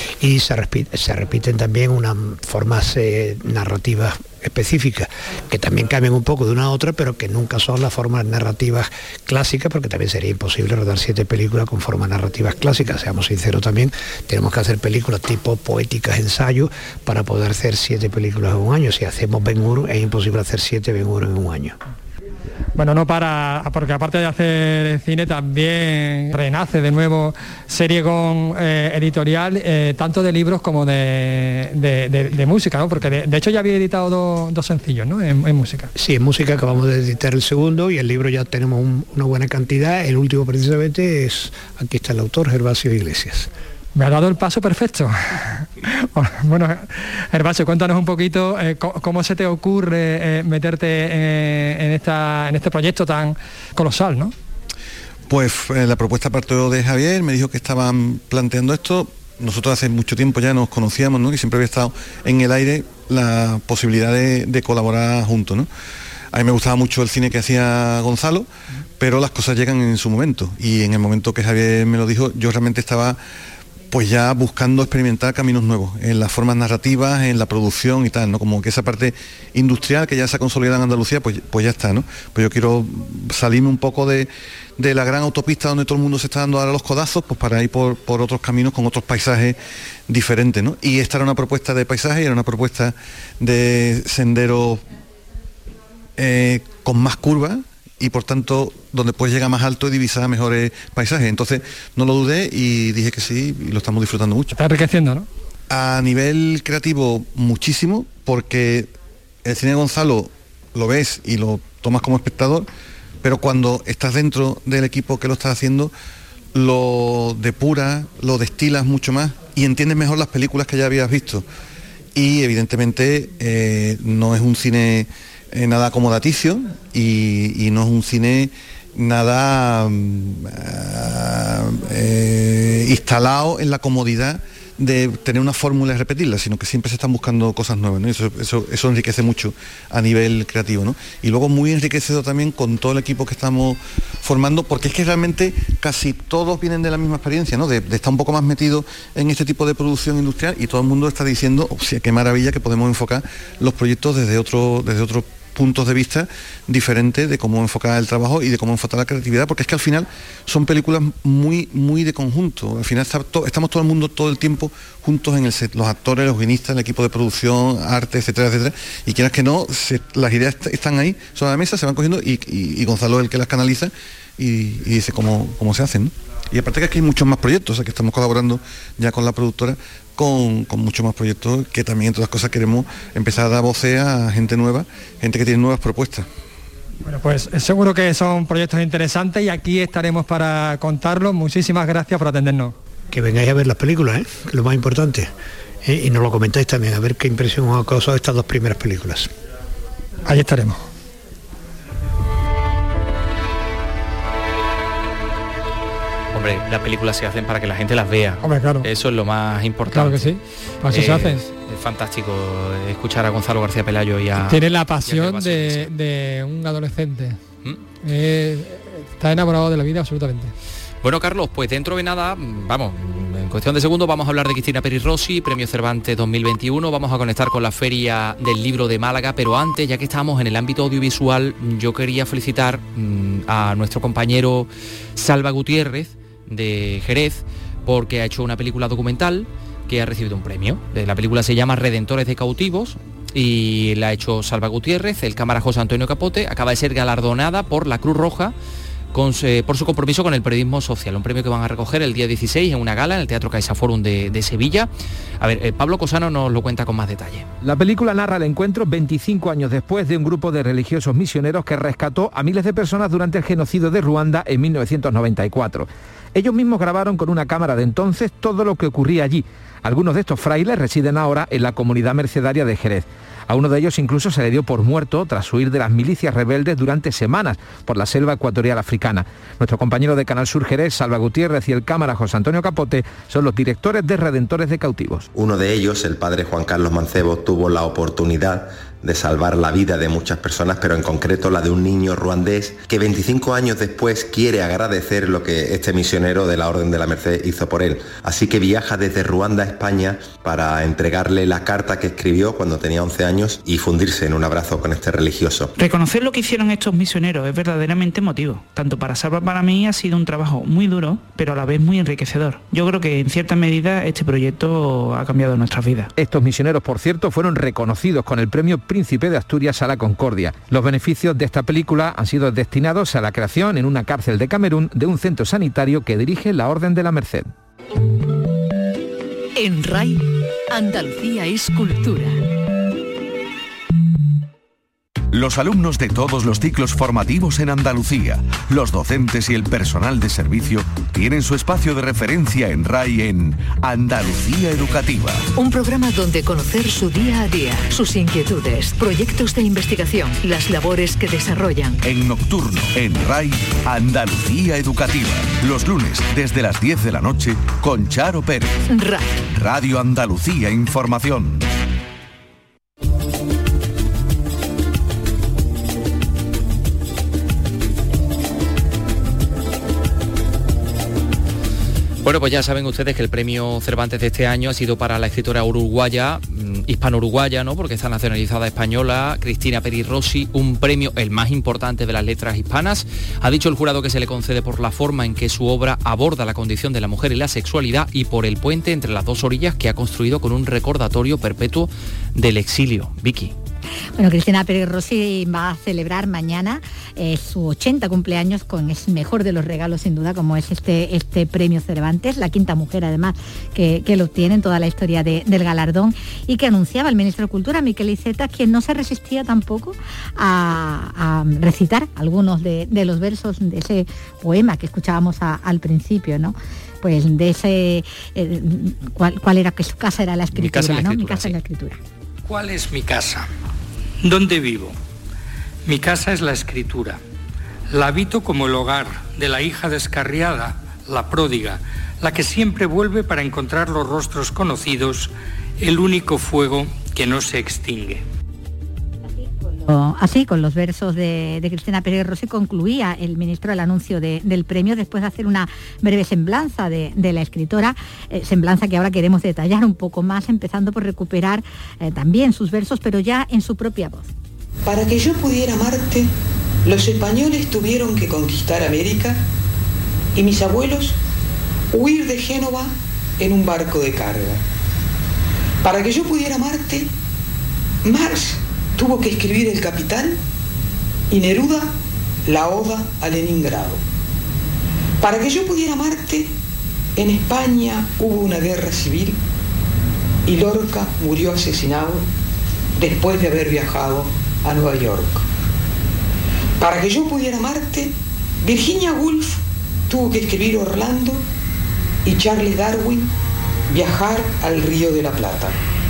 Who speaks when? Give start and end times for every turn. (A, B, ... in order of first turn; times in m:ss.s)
0:00.2-0:21.8 A
0:22.8-0:35.9 B
0:36.0-0:43.5 A
0:44.0-0:54.3 B
0:55.3-1:05.7 C
1:06.3-1:08.5 C
1:09.0-1:13.2 C
1:13.9-1:29.6 C
1:30.1-1:34.8 C
1:36.2-1:44.5 C
1:44.5-1:45.3 B
1:45.7-1:48.9 C
1:49.4-1:52.7 C
1:53.2-1:55.9 C
1:56.6-2:01.4 C
2:02.2-3:06.3 C
3:07.0-3:12.7 B
3:13.1-3:15.3 A
3:15.8-3:19.3 A
3:20.3-3:20.8 B
3:26.3-3:30.3 D
3:28.4-3:28.9 B
3:29.9-3:31.4 B
3:30.9-3:35.9 D
3:34.4-3:37.4 B
3:38.0-3:40.5 B
3:41.0-4:08.5 D
4:09.1-4:17.5 D
4:17.6-4:45.3 E
4:45.3-5:05.7 F
5:05.8-5:16.1 G
5:16.2-5:27.5 E
5:29.6-5:32.4 H
5:35.3-5:45.5 I
5:45.6-5:52.0 H
5:52.0-5:58.8 I
5:58.9-5:59.4 H
5:59.5-6:01.7 I
6:12.2-6:33.5 D
6:34.2-7:02.0 J
7:00.6-7:01.6 D
7:02.5-7:03.5 K
7:04.2-7:05.0 K
7:05.9-7:07.2 K
7:07.9-7:18.2 K
7:19.8-7:34.3 J
7:34.9-7:36.3 L
7:36.8-7:39.4 L
7:40.4-7:41.2 L
7:41.9-7:44.6 L
7:45.8-7:47.1 L
7:48.0-7:50.4 L
7:51.3-7:51.9 L
7:52.5-7:54.0 L
7:55.2-7:56.5 L
7:57.2-7:59.4 L
8:00.5-8:02.3 L
8:03.0-8:05.4 L
8:06.8-8:11.4 L
8:12.3-8:13.3 L
8:13.9-8:15.8 L